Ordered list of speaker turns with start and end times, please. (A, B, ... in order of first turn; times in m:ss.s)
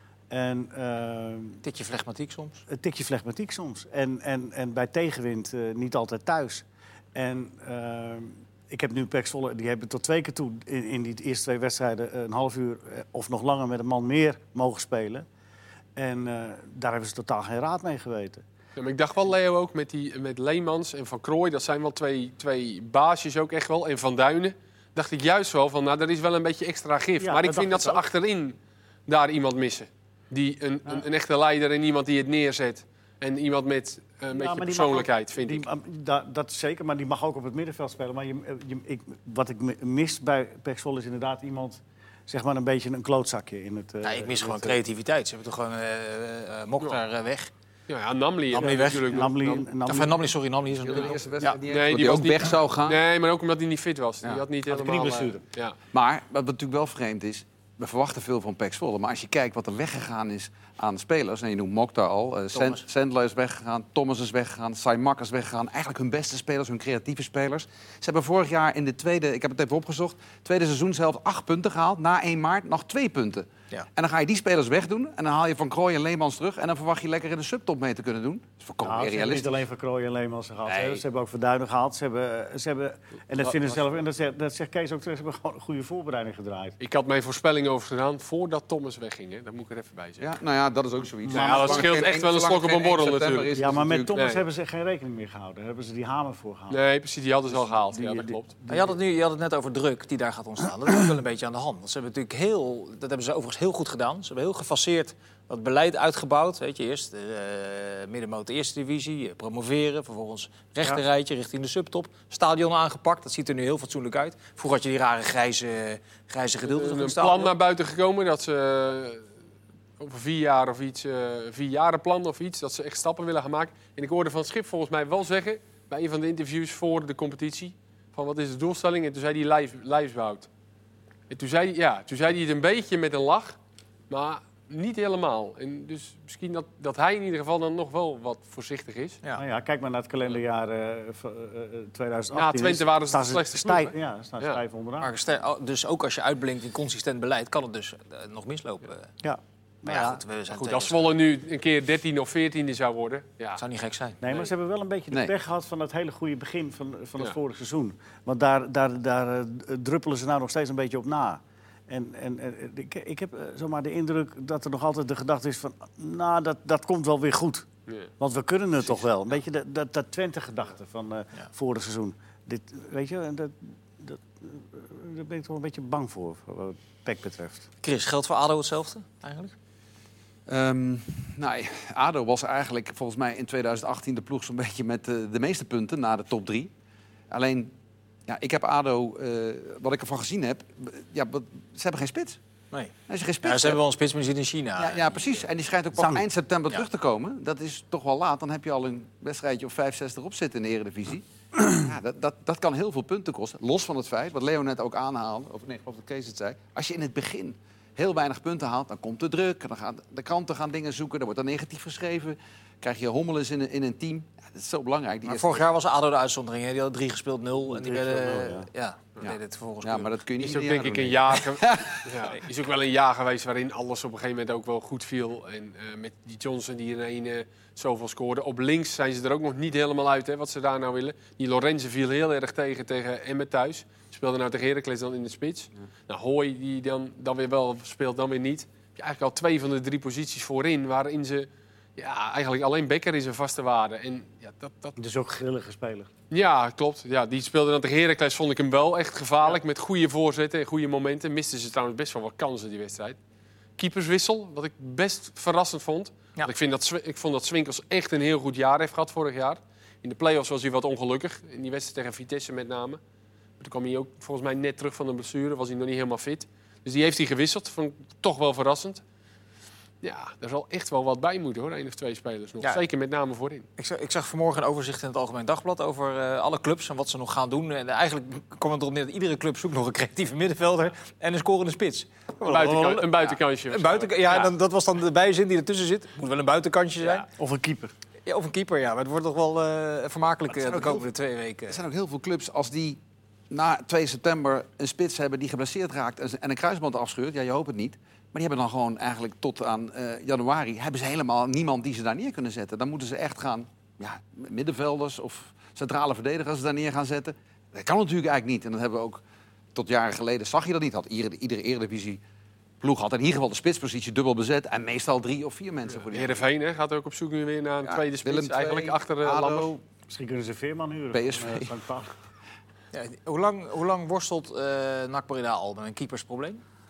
0:00.3-0:01.6 A
0:01.6-0:02.6 B
0:02.7-0:15.2 A
0:16.0-0:18.4 A
0:18.8-0:35.6 C
0:27.2-0:28.0 A
0:34.3-0:44.8 A
0:44.0-0:47.5 B
0:47.9-0:49.7 C
0:48.5-0:49.3 B
0:48.6-0:50.2 A
0:49.8-0:51.6 B
0:50.8-0:53.0 D
0:51.7-0:55.8 C
0:54.7-0:55.4 A
0:55.9-1:19.5 D
1:02.5-1:02.8 B
1:18.8-1:26.8 A
1:20.6-1:21.0 D
1:23.4-1:23.8 C
1:26.8-1:30.3 C
1:30.2-1:34.1 D
1:31.2-1:32.0 A
1:31.3-1:33.5 C
1:33.5-1:36.8 A
1:34.1-1:34.4 C
1:36.7-1:38.5 C
1:37.5-1:39.0 A
1:38.7-1:57.5 B
1:56.6-1:59.2 C
2:00.0-2:10.5 C
2:11.3-2:13.6 C
2:14.1-2:19.2 C
2:19.4-2:25.1 A
2:22.3-2:24.6 C
2:25.0-2:29.1 B
2:29.2-2:30.2 A
2:29.8-2:31.1 B
2:30.5-2:33.6 C
2:33.6-2:34.2 B
2:34.2-2:47.6 A
2:48.2-2:57.7 A
2:57.8-2:59.5 B
3:00.5-3:06.7 D
3:07.3-3:07.7 D
3:08.3-3:12.4 D
3:12.7-3:15.2 B
3:13.1-3:13.8 D
3:14.8-3:35.6 D
3:16.0-3:16.2 A
3:35.2-3:40.1 B
3:37.6-3:38.7 A
3:39.2-3:42.2 D
3:40.4-4:05.0 C
4:05.0-4:06.1 A
4:06.3-4:13.2 C
4:13.8-4:23.0 C
4:23.6-4:29.0 C
4:30.0-4:33.7 C
4:33.8-4:47.3 B
4:42.4-4:44.5 C
4:47.3-4:47.9 A
4:48.2-4:51.8 B
4:50.5-4:51.0 D
4:51.7-5:09.2 D
5:09.7-5:12.2 D
5:12.8-5:16.4 D
5:16.0-5:19.7 C
5:17.8-5:19.8 D
5:20.1-5:22.1 A
5:21.1-5:21.7 D
5:22.9-5:26.6 B